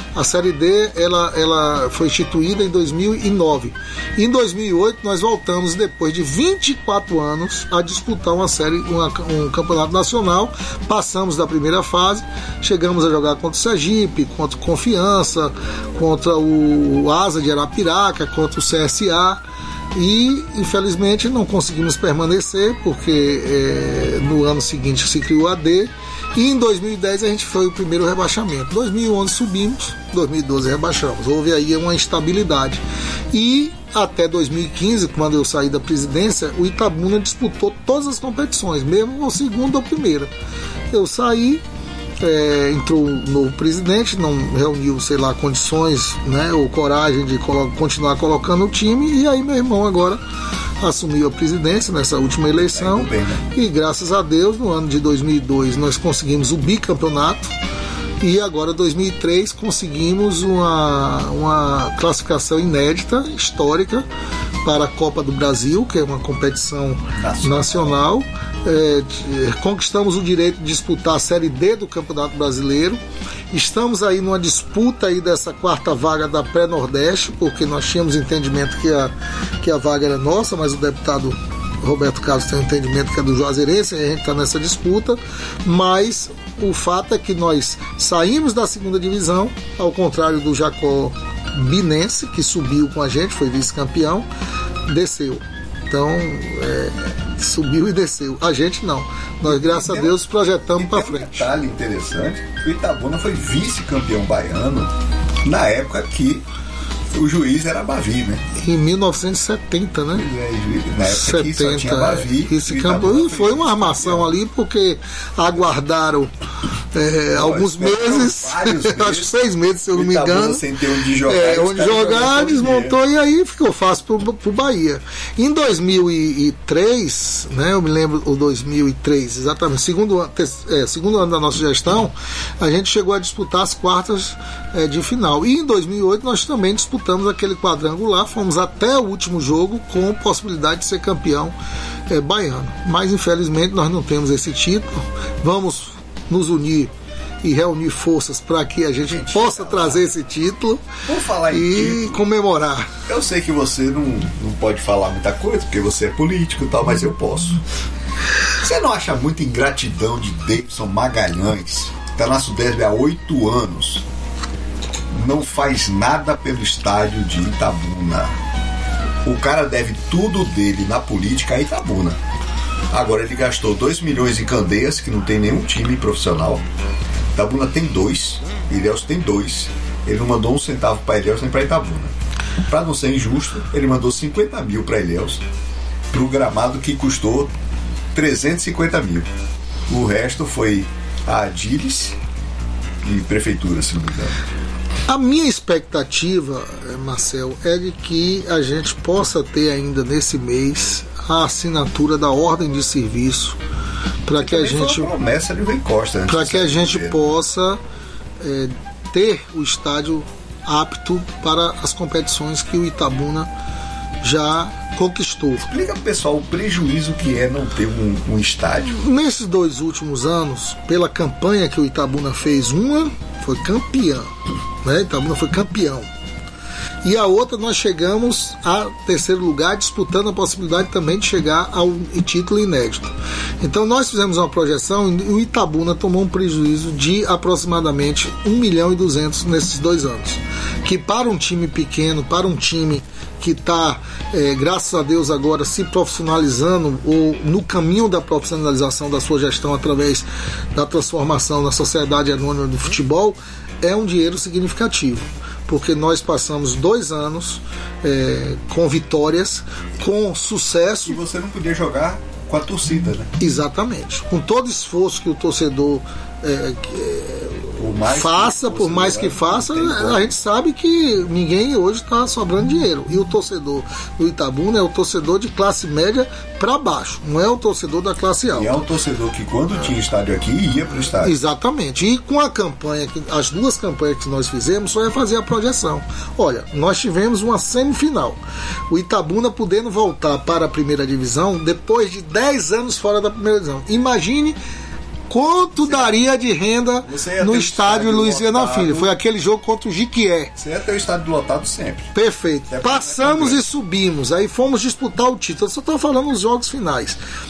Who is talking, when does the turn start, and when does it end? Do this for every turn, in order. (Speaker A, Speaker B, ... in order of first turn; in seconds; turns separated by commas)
Speaker A: 0.1-19.4, Speaker A: 19.9-40.3, Speaker A: 40.9-41.6, Speaker A: 42.2-50.2, Speaker A: 50.8-57.5, Speaker B: 52.6-53.5, Speaker A: 58.2-64.0, Speaker A: 64.6-73.0, Speaker B: 67.2-68.0, Speaker A: 73.5-94.2, Speaker A: 94.9-101.5, Speaker B: 99.4-100.2, Speaker B: 100.8-104.9, Speaker B: 105.4-106.4, Speaker B: 107.1-108.4, Speaker A: 108.5-110.2, Speaker B: 110.1-114.3, Speaker A: 111.0-116.3, Speaker A: 116.9-120.6, Speaker B: 117.3-119.3, Speaker B: 119.9-123.0, Speaker A: 121.2-141.5, Speaker A: 142.1-146.9, Speaker A: 147.4-150.8, Speaker B: 149.0-150.1, Speaker B: 151.1-152.2, Speaker A: 151.5-152.9, Speaker B: 153.1-157.6, Speaker B: 158.6-164.0, Speaker B: 165.1-168.3, Speaker B: 169.2-172.2, Speaker B: 172.9-176.6, Speaker B: 177.3-182.1, Speaker B: 182.7-185.4, Speaker B: 186.1-187.5, Speaker B: 188.1-189.3, Speaker B: 189.9-192.2, Speaker B: 193.0-194.3, Speaker A: 195.1-203.6, Speaker A: 204.2-205.1, Speaker B: 204.4-207.2, Speaker A: 206.3-207.8, Speaker A: 208.4-213.5, Speaker A: 214.2-215.7, Speaker B: 215.6-219.0, Speaker A: 218.8-224.3, Speaker A: 224.8-226.1, Speaker A: 227.0-261.2, Speaker B: 261.0-263.3, Speaker A: 263.4-278.8, Speaker B: 267.8-270.3, Speaker B: 278.5-281.4, Speaker A: 281.2-288.4, Speaker A: 288.9-294.6, Speaker A: 295.3-300.5, Speaker B: 295.8-296.1, Speaker B: 297.0-299.1, Speaker B: 300.6-302.1, Speaker A: 302.1-307.2, Speaker B: 302.7-303.6